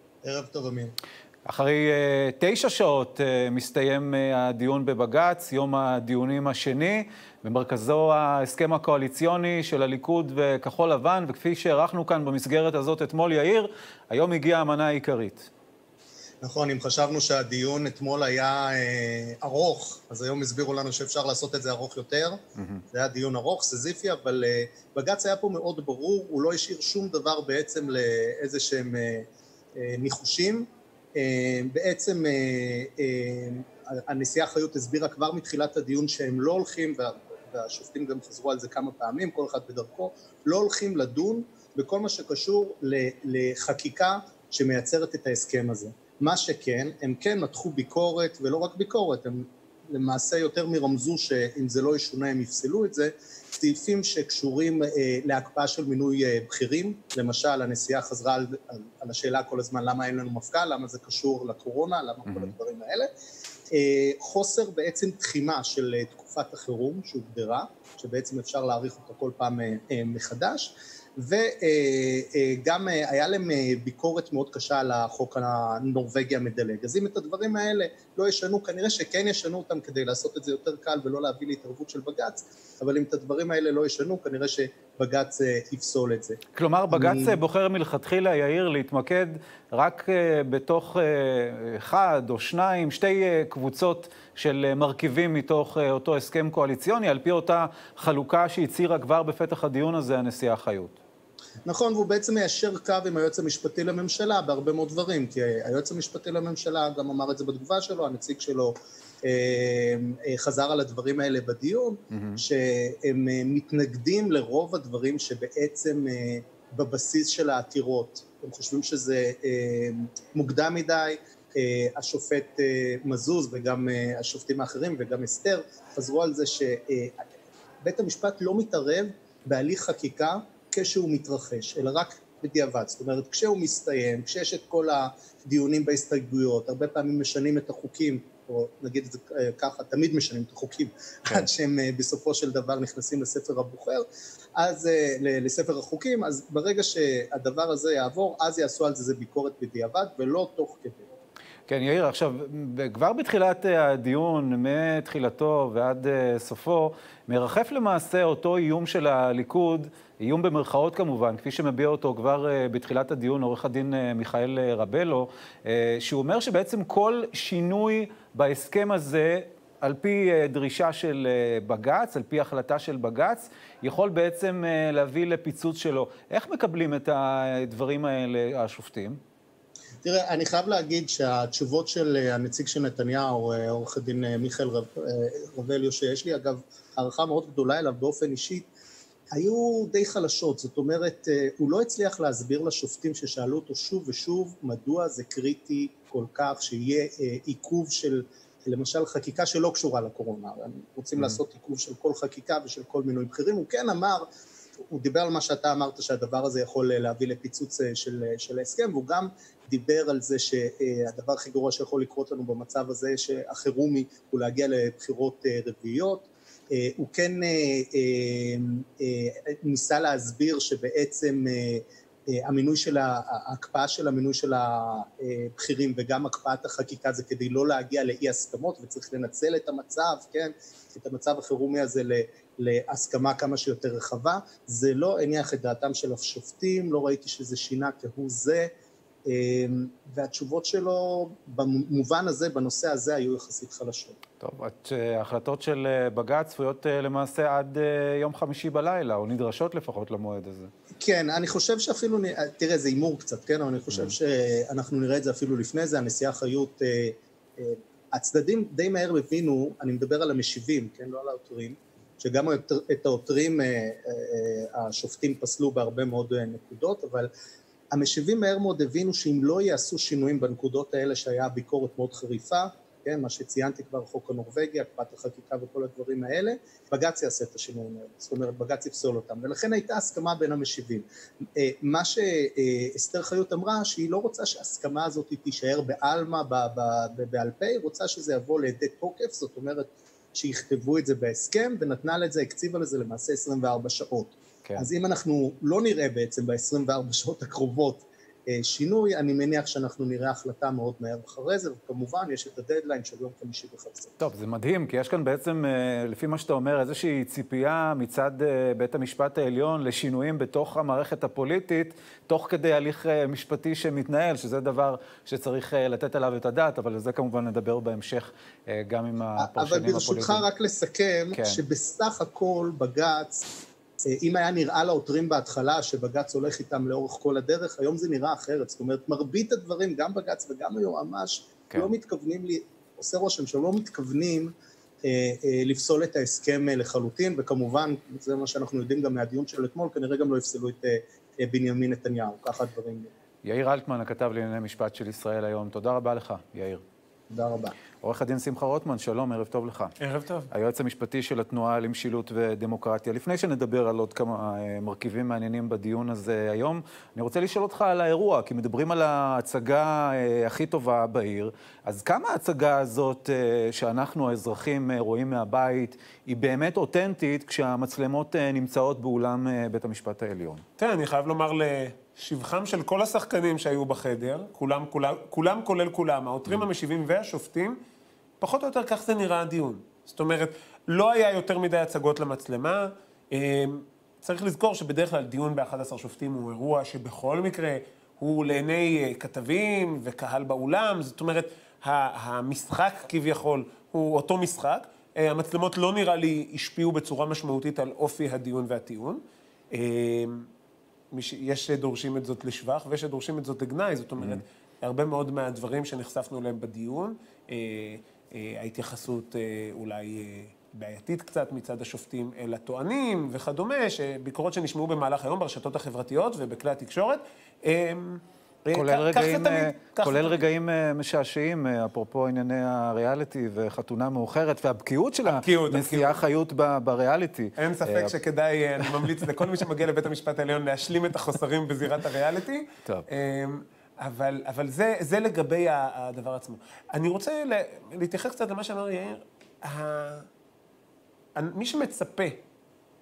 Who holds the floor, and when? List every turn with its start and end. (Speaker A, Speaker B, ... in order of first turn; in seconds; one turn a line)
Speaker A: 0.2-0.9
Speaker B: 1.5-15.5
Speaker A: 16.4-22.4
Speaker B: 22.6-22.8
Speaker A: 22.9-29.3
Speaker A: 29.8-63.1
Speaker B: 62.3-62.5
Speaker A: 63.7-86.4
Speaker B: 86.5-101.0
Speaker A: 86.9-87.4
Speaker A: 101.7-127.2
Speaker B: 112.1-112.4
Speaker A: 127.8-144.0
Speaker A: 144.6-151.1
Speaker B: 151.7-179.2
Speaker A: 180.0-188.7
Speaker A: 189.3-204.2
Speaker A: 204.9-238.7
Speaker A: 239.3-244.2
Speaker B: 244.4-250.7
Speaker A: 251.0-267.3
Speaker A: 267.9-281.1
Speaker A: 281.6-304.1
Speaker B: 304.2-320.4
Speaker A: 319.4-323.4
Speaker B: 321.3-321.6
Speaker A: 324.1-334.5
Speaker A: 335.0-343.1
Speaker B: 343.4-346.8
Speaker A: 347.3-347.8
Speaker B: 348.0-349.9
Speaker C: 350.0-350.5
Speaker B: 350.5-370.6
Speaker C: 370.8-377.8
Speaker C: 378.4-400.5
Speaker C: 401.1-420.4
Speaker B: 418.7-428.1
Speaker C: 425.2-426.2
Speaker C: 427.6-440.3
Speaker B: 428.8-429.1
Speaker C: 441.4-442.4